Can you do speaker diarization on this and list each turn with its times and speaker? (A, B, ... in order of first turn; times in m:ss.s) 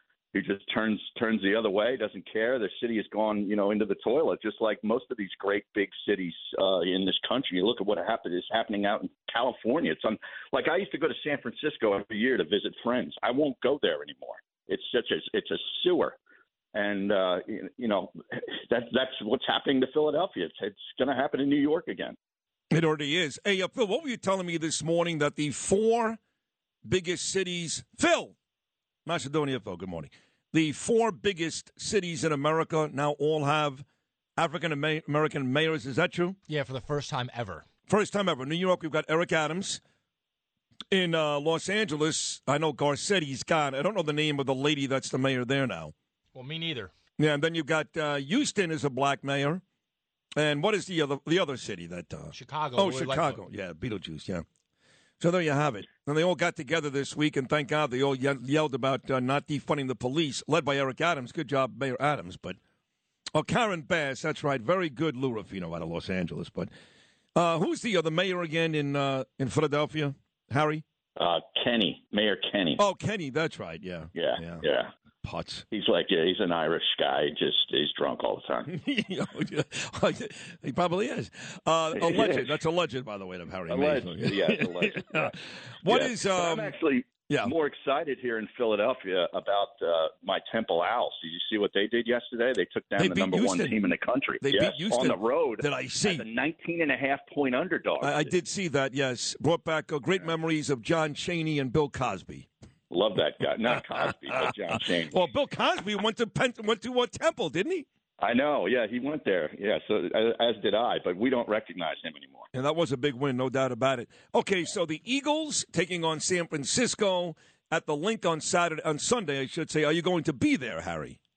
0:00.3-0:16.2 A
0:16.7-0:22.2 A
0:22.7-0:26.2 B
0:26.9-0:28.4 B
0:29.1-0:33.8 B
0:34.4-0:36.4 B
0:36.5-0:37.7 C
0:37.9-0:39.8 B
0:40.9-0:45.9 B
0:46.4-0:46.9 C
0:47.2-0:49.6 B
0:50.4-0:54.4 B
0:52.3-0:53.4 C
0:55.2-1:02.6 B
1:03.3-1:06.7 B
1:07.4-1:10.8 B
1:11.2-1:12.8 A
1:12.8-1:14.6 B
1:14.2-1:14.9 A
1:15.2-1:15.6 B
1:15.7-1:18.7 A
1:18.7-1:26.7 B
1:22.0-1:22.5 A
1:23.7-1:25.4 A
1:25.9-1:38.3 A
1:33.0-1:33.8 B
1:34.4-1:36.2 B
1:38.0-1:42.5 B
1:42.9-1:45.2 A
1:45.1-1:47.9 B
1:48.2-1:52.5 A
1:52.5-2:01.2 B